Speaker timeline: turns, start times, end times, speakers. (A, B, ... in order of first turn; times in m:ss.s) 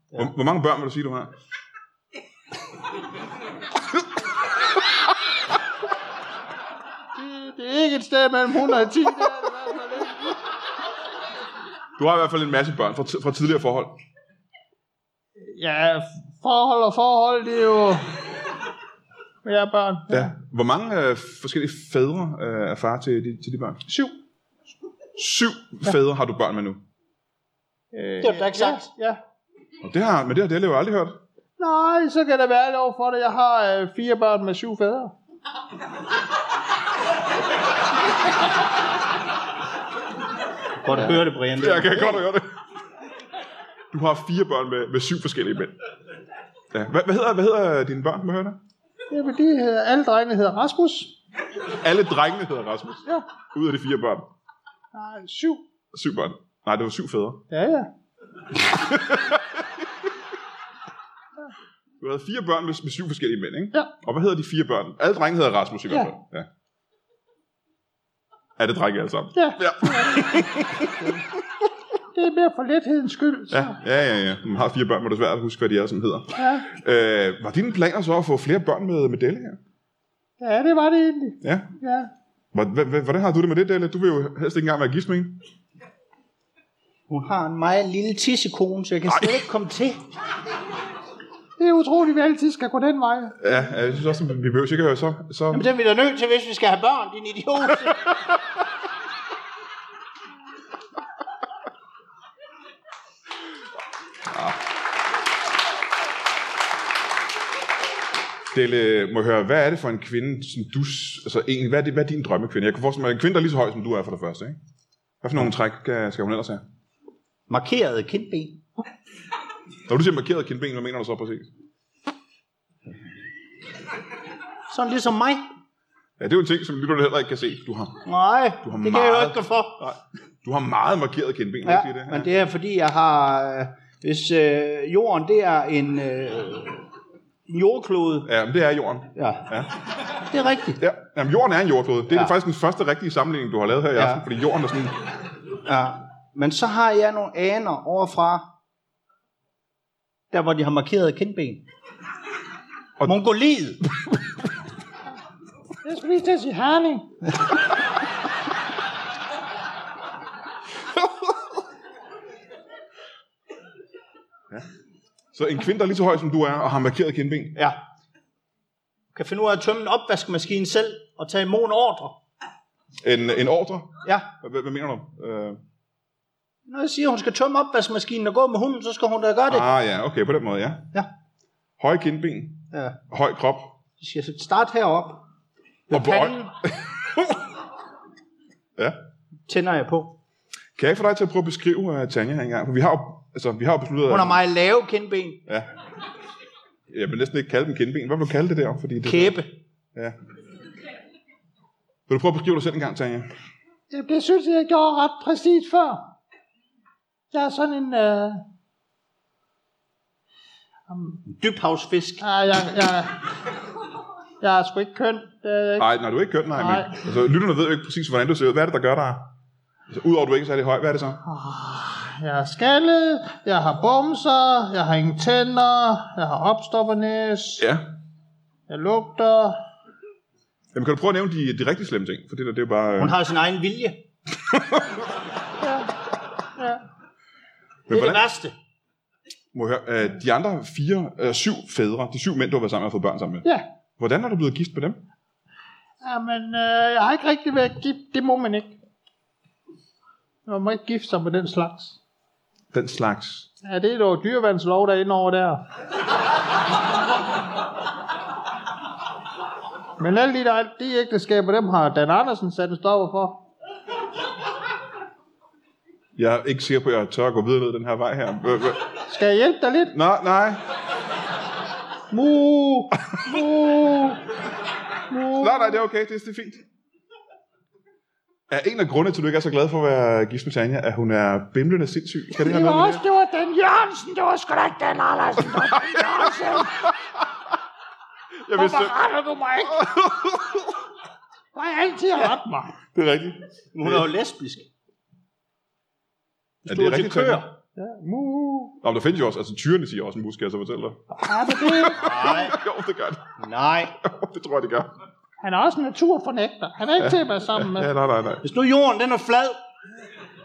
0:00.2-0:01.3 A
0:07.2-0:10.4 B
0:12.0-0:14.0 A
0:15.4-0:18.1 B
0:19.4-0:20.3 B
0:20.1-0:23.8 A
0:23.9-0:24.1 B
0:25.2-0:26.8 A
0:27.9-0:29.0 B
0:28.2-0:29.1 C
0:29.8-0:31.2 A
0:31.6-0:35.1 B
0:40.8-0:42.2 C
0:41.6-0:42.5 A
0:43.9-0:45.8 A
0:46.7-0:48.6 A
0:49.1-0:51.1 B
0:51.8-0:54.3 A
0:54.9-0:55.6 B
0:55.9-0:57.4 A
0:57.5-0:57.9 B
0:58.6-0:59.8 A
1:02.0-1:06.5 A
1:08.6-1:11.2 A
1:09.4-1:10.4 B
1:12.1-1:13.8 B
1:13.5-1:19.6 A
1:16.4-1:16.7 B
1:20.4-1:22.1 B
1:21.4-1:21.7 A
1:22.5-1:25.4 A
1:27.1-1:30.0 C
1:31.6-1:33.4 B
1:33.4-1:35.7 A
1:35.5-1:38.0 C
1:44.3-1:44.6 A
1:48.5-1:54.6 A
1:55.2-1:56.6 A
1:57.5-1:58.6 C
1:59.9-2:01.5 A
2:04.7-2:05.4 C
2:06.2-2:08.0 A
2:08.0-2:09.9 C
2:08.6-2:12.3 A
2:11.6-2:16.8 C
2:17.5-2:18.3 C
2:18.3-2:19.7 A
2:19.2-2:19.5 C
2:20.2-2:20.8 C
2:20.8-2:25.0 A
2:22.1-2:22.4 C
2:24.0-2:24.2 C
2:25.6-2:28.5 C
2:30.3-2:31.6 C
2:33.0-2:33.8 C
2:35.8-2:37.1 B
2:45.3-2:47.6 A
2:49.2-2:52.2 C
2:53.0-2:55.6 A
2:54.0-2:54.3 C
2:56.7-2:59.7 C
2:59.5-3:00.9 A
3:01.8-3:03.7 A
3:02.7-3:03.0 C
3:04.0-3:05.2 C
3:05.9-3:06.5 C
3:05.9-3:07.4 A
3:09.5-3:10.2 C
3:10.8-3:14.4 A
3:14.1-3:15.4 C
3:16.9-3:19.4 A
3:19.0-3:19.5 C
3:22.1-3:23.3 A
3:23.9-3:26.0 B
3:27.3-3:28.4 B
3:30.9-3:31.2 B
3:31.3-3:32.2 C
3:32.2-3:33.2 B
3:34.4-3:35.9 B
3:35.8-3:39.3 A
3:36.5-3:37.0 B
3:39.9-3:41.2 A
3:41.2-3:47.7 B
3:47.6-3:47.9 A
3:48.7-3:49.6 B
3:50.7-3:53.2 A
3:53.0-3:54.0 C
3:54.5-3:55.0 A
3:55.6-3:55.9 B
3:56.6-3:56.8 B
3:57.9-3:58.6 C
3:57.9-3:58.3 A
3:59.5-4:03.4 A
4:04.0-4:05.0 A
4:06.0-4:08.8 B
4:10.4-4:12.0 B
4:12.7-4:13.5 A
4:13.6-4:15.6 B
4:20.0-4:23.4 B
4:26.2-4:28.9 A
4:29.1-4:30.0 B
4:29.9-4:30.6 A
4:32.1-4:34.2 B
4:35.1-4:35.8 B
4:35.4-4:36.7 A
4:38.5-4:43.0 A
4:42.4-4:46.8 B
4:45.4-4:46.9 A
4:48.4-4:49.0 A
4:48.5-4:49.9 B
4:49.6-4:50.8 A
4:51.6-4:52.8 B
4:52.9-4:54.1 A
4:53.7-4:54.7 C
4:56.6-4:57.6 C
4:56.7-4:57.5 A
4:57.8-4:58.8 B
4:58.8-5:01.0 A
5:01.1-5:02.1 B
5:01.6-5:03.3 A
5:02.0-5:02.6 C
5:03.4-5:04.0 C
5:04.0-5:04.9 A
5:05.4-5:07.9 B
5:07.0-5:08.4 A
5:08.4-5:09.6 C